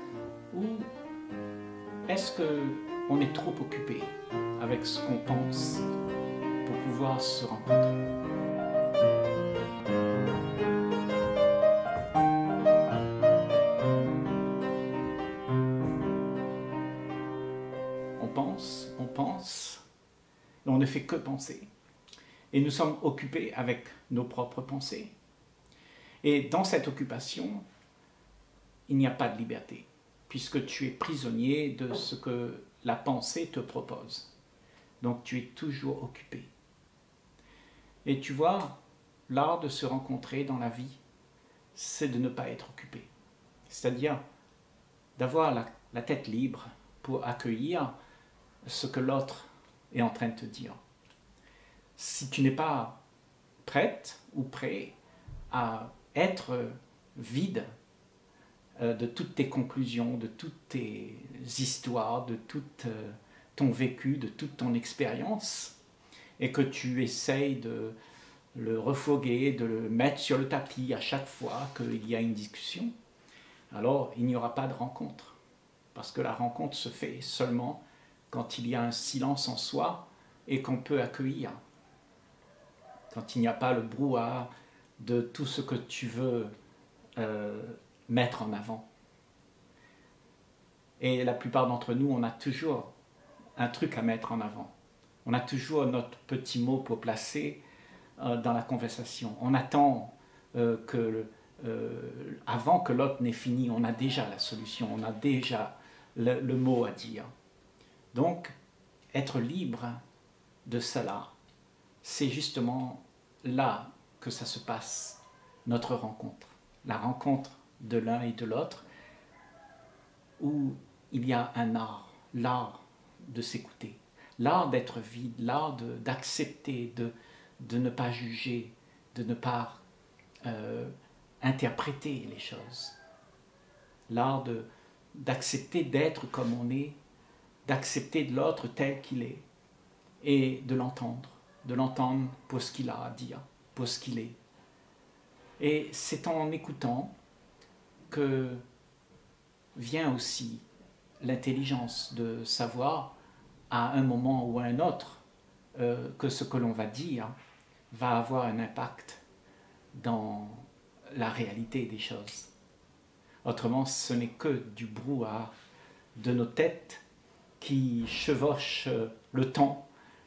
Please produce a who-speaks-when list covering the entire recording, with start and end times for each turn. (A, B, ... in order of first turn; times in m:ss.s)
0:00.5-0:00.9 A
0:02.1-0:05.9 A
0:06.6-0:08.0 A
0:18.2-0:19.8 A
0:20.6-0:21.7 A
0:22.5-0:25.1 A
0:26.2-0:27.6 A
0:28.9-0:34.3 A
0:35.0-0:36.5 A
0:38.0-0:38.8 A
0:39.3-0:41.0 A
0:41.8-0:43.1 A
0:43.7-0:44.2 A
0:45.2-0:47.9 A
0:48.6-0:50.8 A
0:52.0-0:53.0 A
0:53.6-0:55.0 A
0:55.5-0:57.7 A
0:58.8-1:05.8 A
1:06.4-1:08.0 A
1:08.5-1:12.9 A
1:13.7-1:15.4 A
1:15.9-1:21.6 A
1:23.1-1:26.5 A
1:27.2-1:28.8 A
1:31.0-1:32.9 A
1:33.6-1:34.7 A
1:35.2-1:37.6 A
1:38.2-1:47.3 A
1:48.1-1:48.5 A
1:49.1-1:50.0 A
1:50.6-1:51.3 A
1:52.0-1:58.8 A
2:00.4-2:09.8 A
2:10.4-2:13.0 A
2:14.1-2:17.0 A
2:17.6-2:19.4 A
2:20.2-2:24.4 A
2:25.6-2:27.1 A
2:28.1-2:28.6 A
2:29.8-2:30.6 A
2:31.2-2:33.1 A
2:33.7-2:35.2 A
2:35.8-2:37.3 A
2:37.9-2:39.2 A
2:39.9-2:42.5 A
2:43.4-2:45.5 A
2:46.2-2:47.0 A
2:47.6-2:49.8 A